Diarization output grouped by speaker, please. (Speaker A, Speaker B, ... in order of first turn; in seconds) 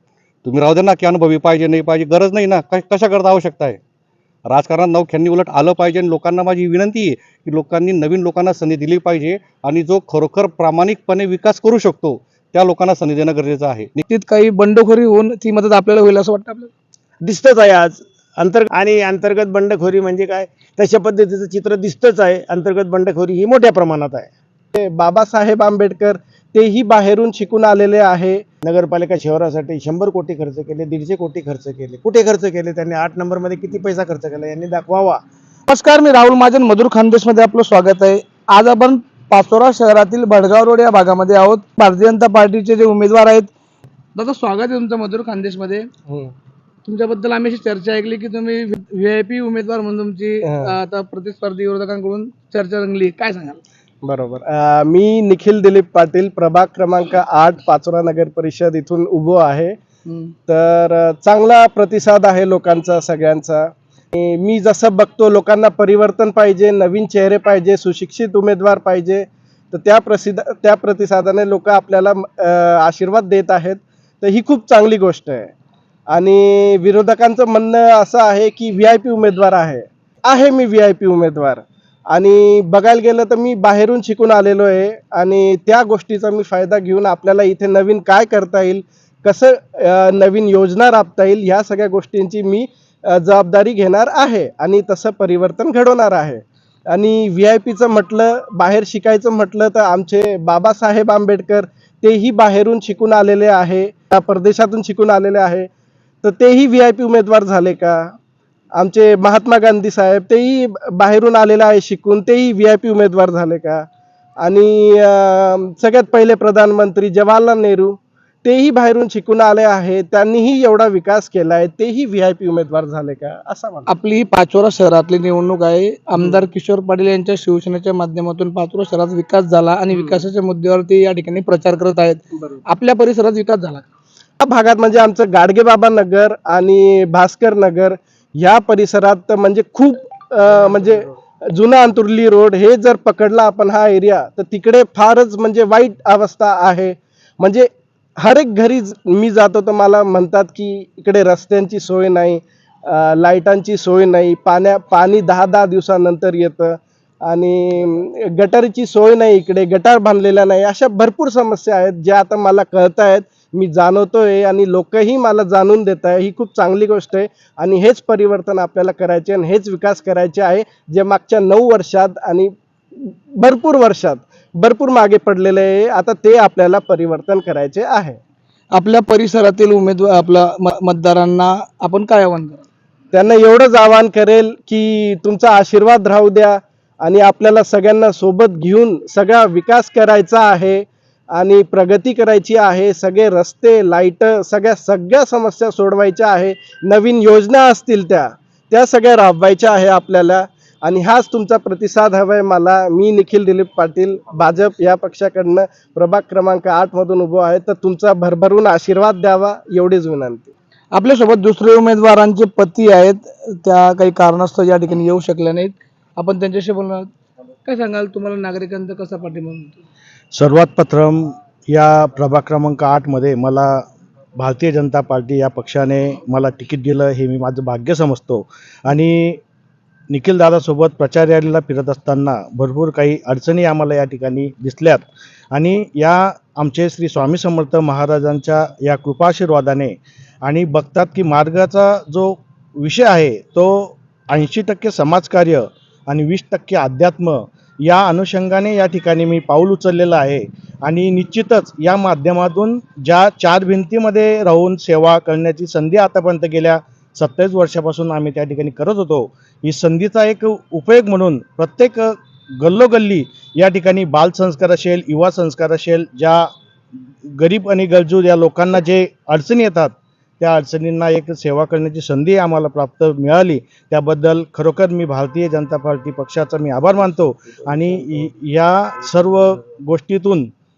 Speaker A: 0.4-3.8, 4.5-14.0
Speaker B: 14.1-16.7, 35.7-43.5, 44.1-45.9, 46.9-53.6, 123.9-133.9, 178.7-182.6, 210.9-217.1, 217.7-219.8
Speaker C: 17.2-24.3, 28.6-35.2
Speaker D: 24.7-28.4, 46.1-46.3, 50.4-50.8, 54.0-59.8, 60.5-75.5, 76.1-105.7, 106.2-108.2, 108.8-113.9, 114.4-123.9, 126.2-126.5, 129.9-130.3, 134.4-178.2, 183.1-210.5
Speaker E: 220.3-223.8, 224.4-229.4, 230.1-266.5, 267.3-280.5